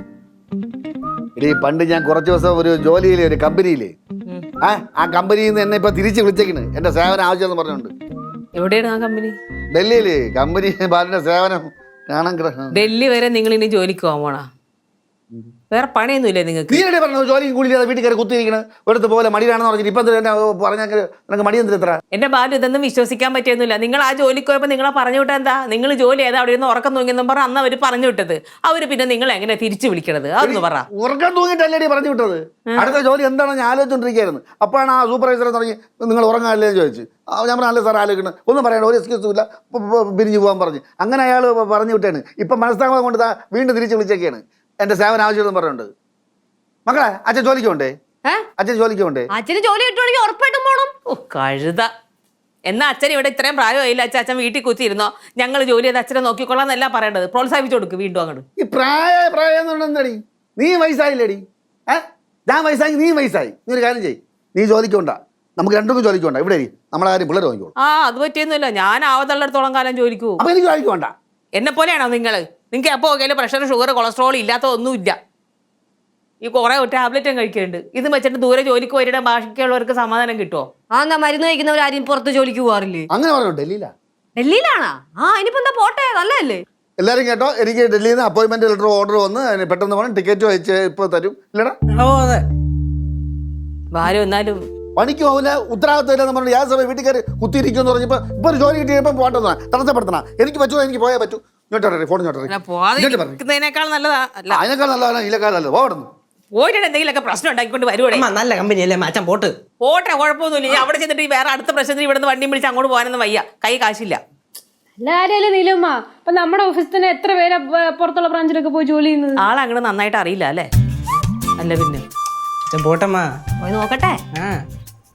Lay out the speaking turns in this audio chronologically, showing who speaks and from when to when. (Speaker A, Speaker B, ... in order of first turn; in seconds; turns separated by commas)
Speaker A: 1.4-3.9, Speaker A: 4.6-7.9, Speaker B: 8.5-9.3, Speaker A: 9.7-12.8, Speaker B: 12.7-14.5, Speaker B: 15.7-16.8, Speaker A: 16.7-22.0, Speaker B: 22.1-30.8, Speaker A: 30.4-45.9, Speaker A: 46.9-47.9, Speaker A: 48.6-49.2, Speaker C: 49.3-50.9, Speaker B: 51.1-51.9, Speaker B: 52.7-58.4, Speaker A: 58.6-67.7, Speaker B: 67.8-70.4, Speaker A: 70.4-71.1, Speaker B: 71.6-75.2, Speaker B: 76.4-80.7, Speaker C: 80.9-83.1, Speaker A: 83.1-83.9, Speaker C: 84.3-86.6, Speaker A: 87.0-91.7, Speaker D: 92.0-92.4, Speaker B: 93.9-94.6, Speaker A: 95.0-103.4, Speaker B: 102.5-104.6, Speaker A: 104.5-106.1, Speaker B: 106.5-108.2, Speaker D: 108.1-109.5, Speaker B: 109.8-114.2, Speaker E: 115.0-119.4, Speaker B: 119.4-120.7, Speaker B: 121.6-122.0, Speaker D: 122.7-123.3, Speaker C: 123.6-124.2